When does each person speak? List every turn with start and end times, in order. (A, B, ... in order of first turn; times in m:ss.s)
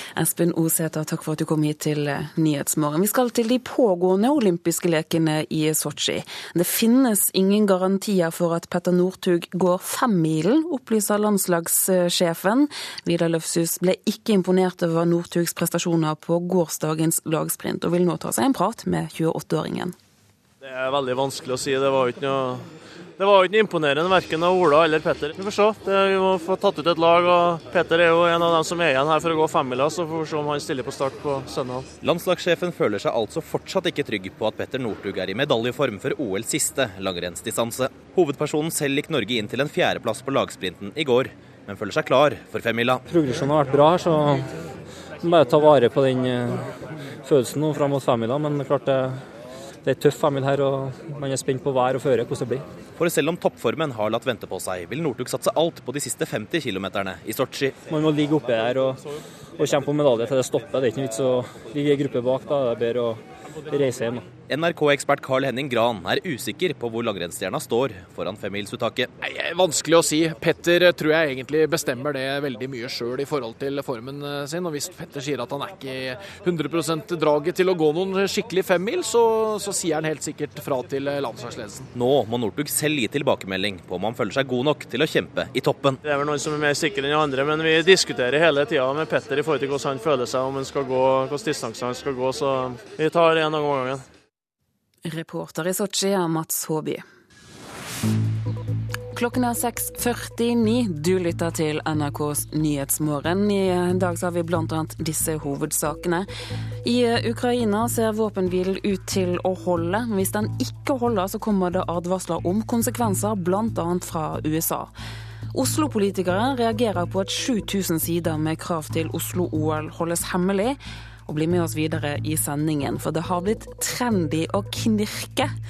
0:00.2-0:19.9 A
0:20.6-0:31.9 B
0:32.0-0:43.0 C
0:43.1-0:44.5 D
0:45.2-0:46.7 D
0:47.2-0:49.2 D
0:49.8-0:52.6 D
0:53.0-0:57.8 C
0:57.8-0:59.0 D
0:59.6-1:04.3 D
1:04.5-1:09.1 C
1:09.2-1:21.9 E
1:21.9-1:26.0 C
1:26.0-1:34.1 B
1:35.0-1:37.0 A
1:39.1-1:46.3 A
1:46.8-1:54.9 A
1:55.5-2:05.5 A